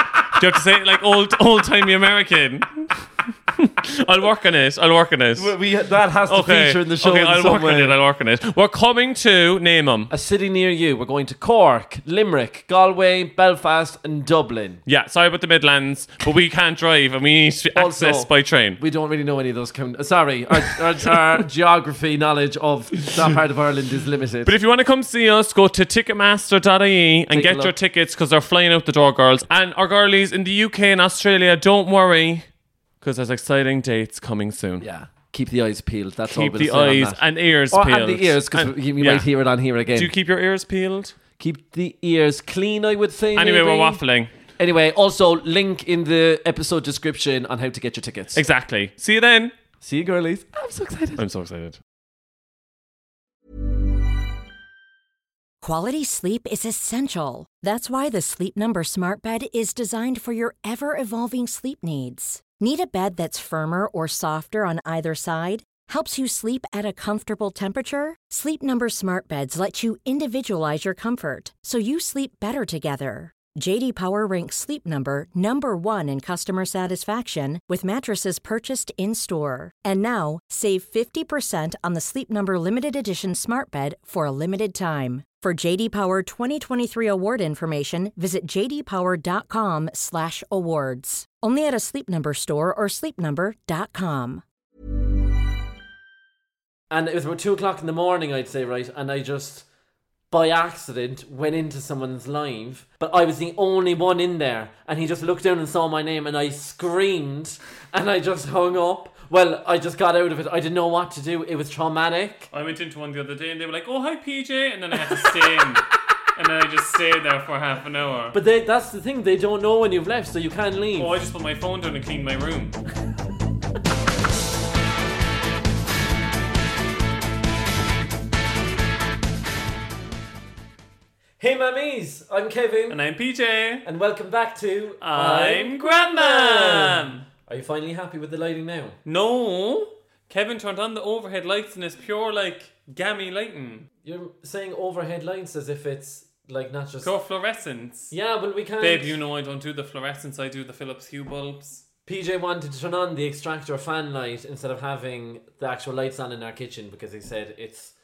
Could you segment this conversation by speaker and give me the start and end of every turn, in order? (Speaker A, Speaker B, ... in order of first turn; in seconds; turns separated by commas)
Speaker A: 0.3-5.5, Speaker B: 5.3-8.0, Speaker A: 6.3-10.1, Speaker B: 10.1-14.8, Speaker A: 14.9-18.8, Speaker B: 17.7-24.5, Speaker A: 20.6-21.2, Speaker A: 24.4-32.5, Speaker B: 27.3-27.7, Speaker A: 33.0-34.9, Speaker B: 34.8-40.1, Speaker A: 36.3-39.3, Speaker A: 39.9-41.1, Speaker B: 41.4-44.0, Speaker A: 43.4-44.3, Speaker B: 44.6-48.4, Speaker A: 48.3-49.5, Speaker B: 49.8-51.2, Speaker A: 51.2-51.8, Speaker C: 55.6-94.4, Speaker B: 96.9-99.7, Speaker B: 100.3-112.5, Speaker A: 112.5-115.8, Speaker A: 116.4-118.4, Speaker B: 118.3-121.1, Speaker A: 121.0-122.8, Speaker B: 131.4-133.0, Speaker A: 132.9-133.8, Speaker B: 133.8-139.0, Speaker A: 135.0-137.2, Speaker A: 139.1-143.9, Speaker B: 144.0-147.1, Speaker A: 147.0-148.1, Speaker B: 148.1-149.2, Speaker A: 148.8-151.8, Speaker B: 152.1-157.9